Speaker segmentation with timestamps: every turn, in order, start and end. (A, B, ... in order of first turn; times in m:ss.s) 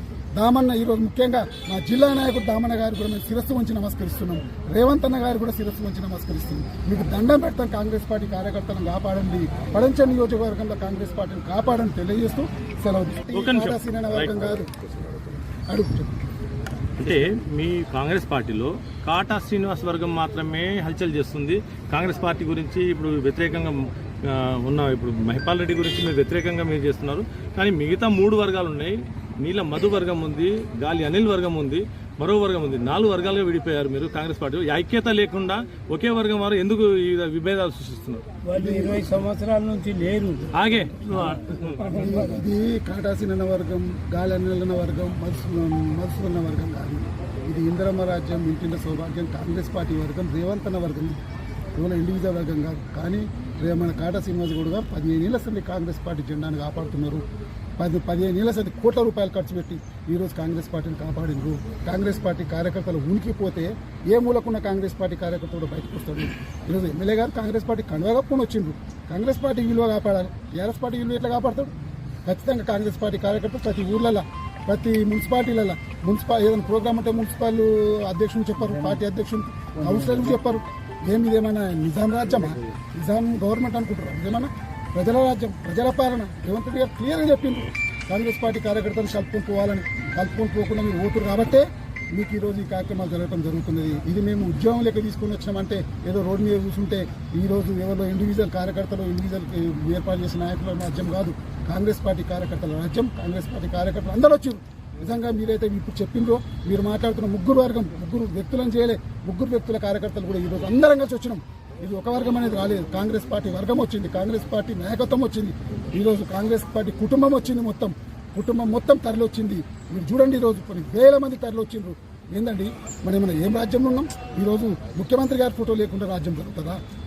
0:00.4-0:14.7 A
0:13.3-0:14.3 B
0:15.7-0:16.2 A
0:17.0-0:38.2 B
0:38.5-0:40.4 C
0:38.6-0:39.0 A
0:40.6-0:41.8 B
0:41.9-0:42.2 C
0:41.9-0:51.2 A
0:51.8-0:57.2 A
0:57.8-1:11.7 A
1:12.3-2:06.8 A